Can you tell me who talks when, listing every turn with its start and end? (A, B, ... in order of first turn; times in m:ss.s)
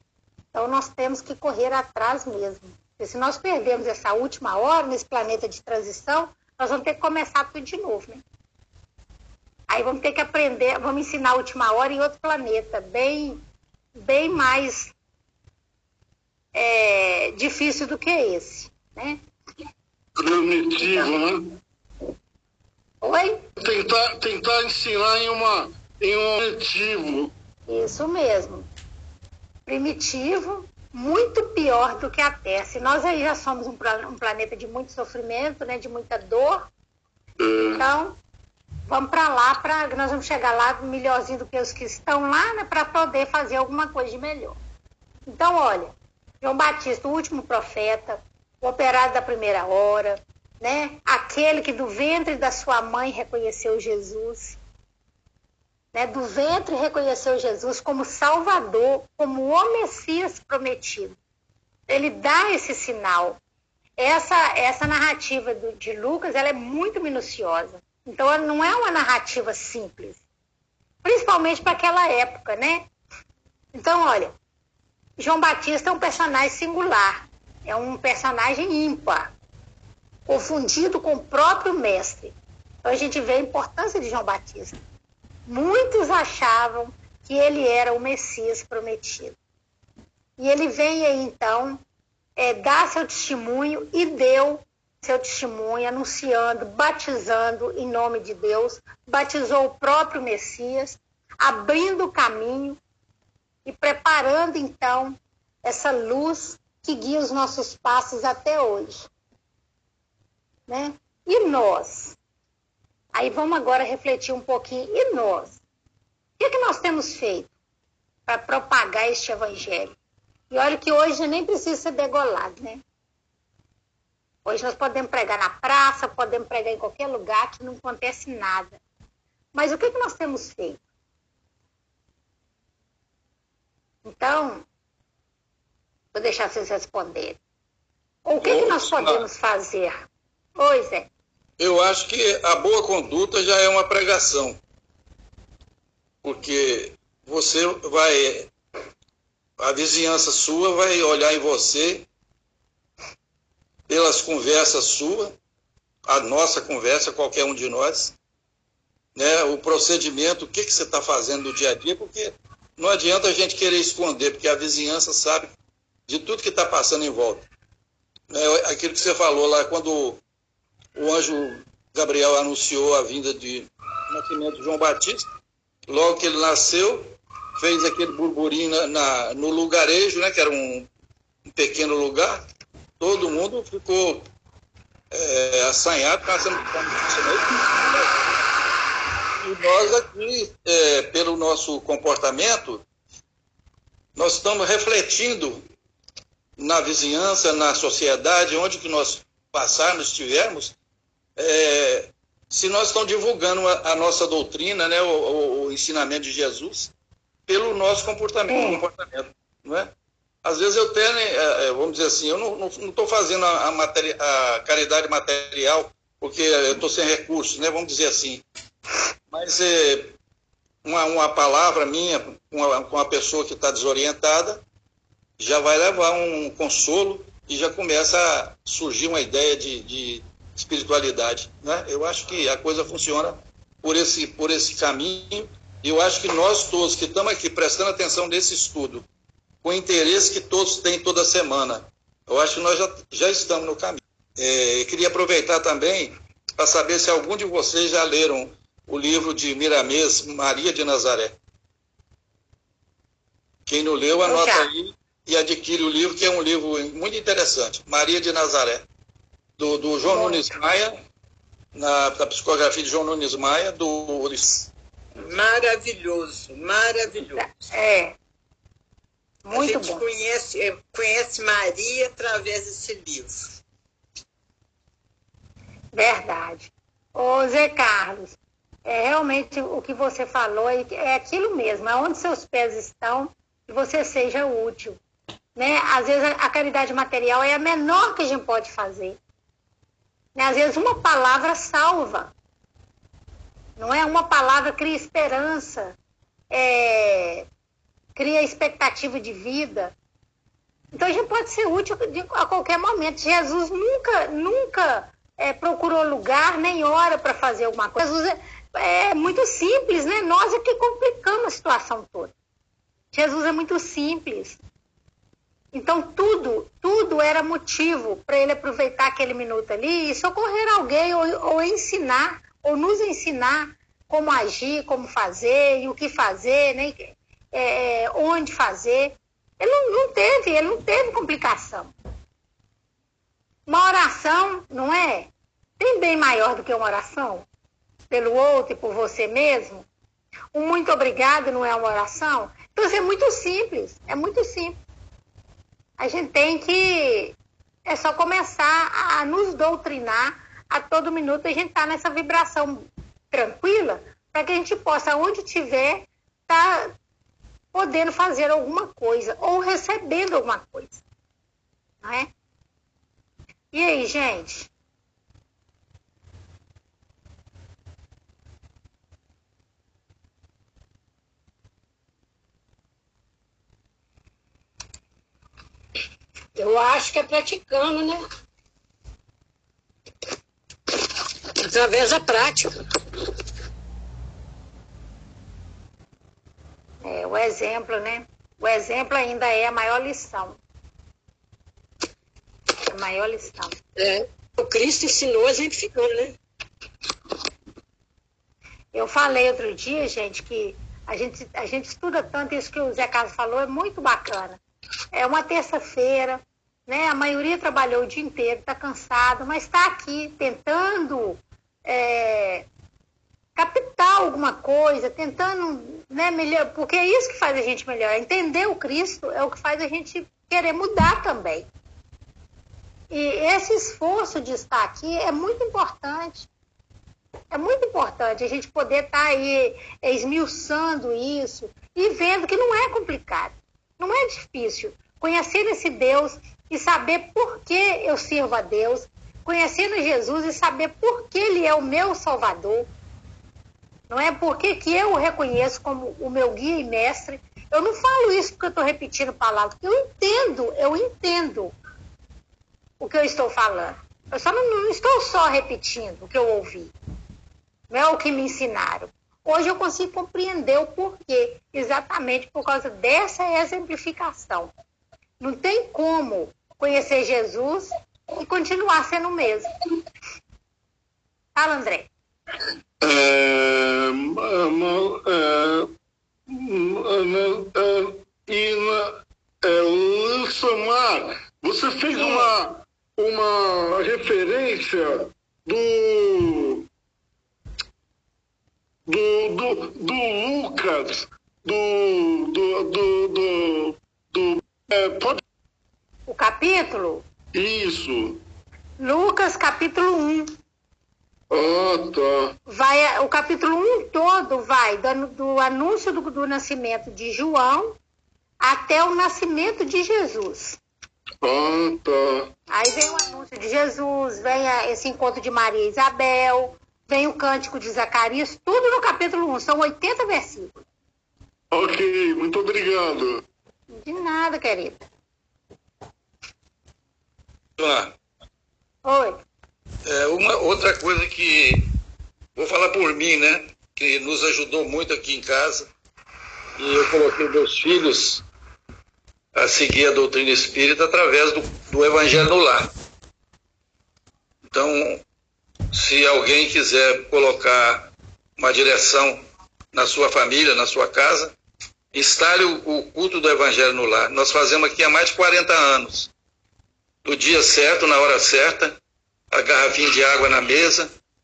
0:00.5-0:08.2 A
0:09.7-0:13.4 A
0:13.9-0:14.9 A
0:16.5-0:19.2 A
0:20.2-0:21.5 B
0:20.8-0:21.1 A
0:23.0-0:23.4 A
0:23.6-0:27.3 B
0:27.7-0:28.7 A
0:29.7-0:36.6 A
0:37.4-0:37.8 B
0:37.6-0:38.2 A
0:38.9-0:44.6 A
0:45.3-0:54.6 A
0:55.9-1:01.2 A
1:01.9-1:03.4 A
1:04.0-1:10.2 A
1:11.0-1:12.8 A
1:13.7-1:14.3 A
1:15.2-1:19.3 A
1:20.3-1:24.8 A
1:25.5-1:29.3 A
1:30.4-1:31.8 A
1:32.4-1:42.8 A
1:43.6-1:49.1 A
1:50.7-1:52.2 A
1:53.1-1:55.6 A
1:56.4-1:57.5 A
1:58.3-1:59.9 A
2:00.5-2:02.8 A
2:04.4-2:08.8 A
2:09.5-2:10.8 A
2:14.0-2:14.6 A
2:16.1-2:17.4 A
2:18.2-2:20.0 A
2:18.4-2:19.2 C
2:20.6-2:21.1 A
2:21.6-2:24.6 C
2:26.2-2:28.5 C
2:29.6-2:32.0 C
2:33.9-2:35.3 C
2:36.0-2:38.1 C
2:39.2-2:45.5 C
2:46.1-2:47.5 C
2:48.3-2:50.2 C
2:50.9-2:55.3 C
2:55.9-3:00.9 C
3:01.5-3:02.4 C
3:03.0-3:04.2 C
3:05.1-3:08.4 C
3:09.4-3:12.8 C
3:14.2-3:15.6 C
3:16.6-3:20.7 C
3:21.4-3:26.9 C
3:27.5-3:29.9 C
3:28.5-3:28.8 A
3:30.4-3:38.4 C
3:39.3-3:40.1 C
3:40.8-3:44.6 C
3:45.4-3:59.0 C
3:59.6-4:11.4 C
4:13.7-4:18.8 C
4:14.2-4:14.7 A
4:19.6-4:21.0 C
4:20.1-4:20.6 A
4:21.7-4:24.7 C
4:25.2-4:27.6 D
4:27.4-4:28.2 A
4:29.4-4:30.1 A
4:29.5-4:33.6 D
4:35.9-4:45.0 A
4:45.5-4:49.2 A
4:50.3-4:52.3 A
4:53.8-4:56.0 A
4:56.5-4:57.4 A
4:58.2-4:59.9 A
5:00.9-5:12.3 A
5:13.1-5:14.6 A
5:15.7-5:31.9 A
5:33.7-5:37.4 A
5:38.1-5:39.8 A
5:40.5-5:44.8 A
5:46.0-5:47.4 A
5:47.9-5:56.9 A
5:57.7-6:01.0 A
6:02.0-6:02.3 A
6:03.7-6:04.7 A
6:16.6-6:18.2 E
6:21.6-6:22.7 E
6:27.0-6:30.6 A
6:32.9-6:33.8 A
6:34.0-6:36.3 E
6:38.9-6:44.6 A
6:45.1-6:52.6 A
6:53.6-7:01.7 A
7:03.1-7:06.5 A
7:07.5-7:22.9 A
7:24.1-7:31.7 A
7:33.0-7:36.9 A
7:37.9-7:44.7 A
7:45.4-7:49.7 A
7:51.5-7:52.1 A
7:53.0-7:55.9 B
7:56.5-8:06.8 B
8:02.2-8:02.5 A
8:09.1-8:15.4 B
8:16.3-8:17.2 A
8:17.5-8:18.4 B
8:19.0-8:20.6 A
8:21.5-8:22.5 B
8:22.7-8:28.0 A
8:28.6-8:30.8 A
8:31.4-8:32.5 B
8:32.7-8:40.7 A
8:41.7-8:43.4 B
8:43.9-8:45.0 A
8:47.8-8:48.1 C
8:49.0-8:49.4 A
8:50.0-8:51.9 C
8:52.6-8:55.9 C
8:56.8-8:58.4 C
8:59.5-9:02.9 C
9:04.7-9:05.2 C
9:05.9-9:09.4 C
9:09.9-9:11.5 C
9:12.1-9:16.3 C
9:17.2-9:19.0 C
9:19.5-9:21.1 C